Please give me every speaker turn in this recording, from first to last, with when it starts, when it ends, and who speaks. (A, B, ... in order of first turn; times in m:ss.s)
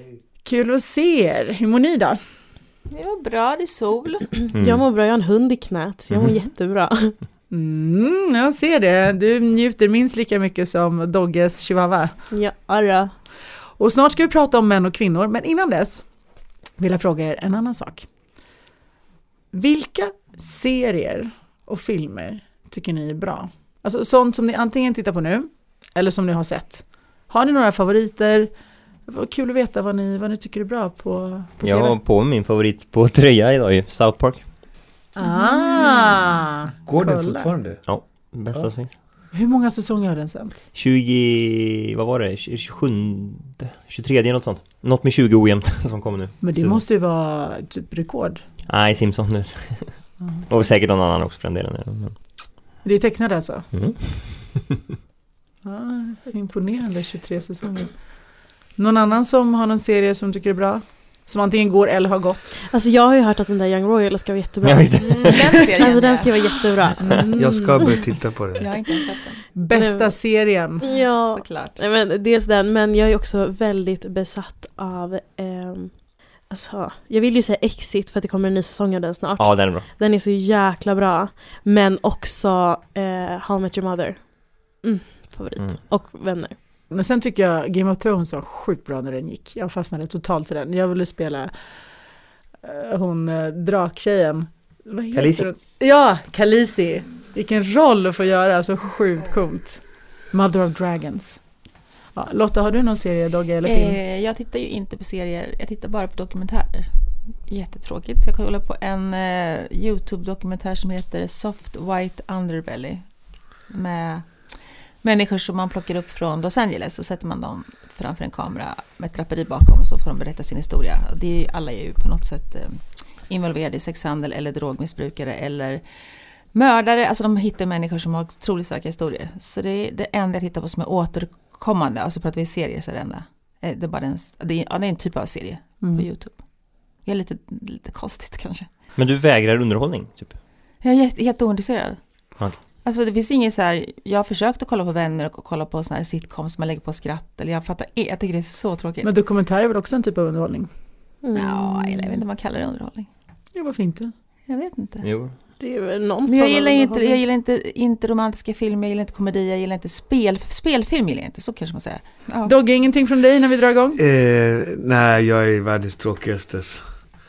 0:00.4-0:02.2 A
0:02.9-0:04.3 B
0:04.5-0:04.8 C
0:04.5-0:07.2 D
0:06.1-0:06.4 C
0:07.5-0:12.2 A
0:12.3-0:13.1 D
0:13.8-0:16.0 A
0:16.8-0:18.1 A
0:19.5-0:28.5 A
0:29.0-0:32.0 A
0:31.6-0:34.4 C
0:35.2-0:37.5 A
0:35.2-0:36.1 B
0:36.9-0:37.8 E
0:37.8-0:38.9 C
0:39.3-0:40.6 A
0:40.7-0:46.8 C
0:46.4-0:48.4 A
0:48.7-0:52.2 C
0:52.8-0:53.7 A
0:53.7-0:54.7 C
0:55.6-0:58.1 A
0:58.8-1:02.5 A
1:02.7-1:07.9 D
1:04.6-1:05.7 C
1:05.1-1:06.9 B
1:07.0-1:07.6 A
1:07.4-1:08.7 E
1:08.6-1:09.5 B
1:09.6-1:10.9 A
1:09.7-1:10.2 D
1:10.8-1:26.6 D
1:11.3-1:11.8 B
1:19.4-1:19.9 C
1:26.9-1:31.6 A
1:32.6-1:41.4 A
1:35.1-1:35.5 C
1:42.1-1:44.0 A
1:43.6-1:46.9 B
1:47.5-1:53.1 B
1:53.6-1:54.5 B
1:55.0-2:05.8 B
2:06.5-2:16.4 B
2:15.8-2:16.1 A
2:17.0-2:18.7 B
2:18.9-2:20.4 C
2:20.8-2:22.0 B
2:22.8-2:29.1 B
2:29.0-2:30.7 A
2:31.2-2:32.2 D
2:31.3-2:33.1 B
2:33.5-2:34.1 A
2:34.5-2:35.1 B
2:35.0-2:35.3 C
2:35.6-2:37.2 D
2:36.2-2:42.5 B
2:42.4-2:44.0 A
2:44.0-2:46.8 E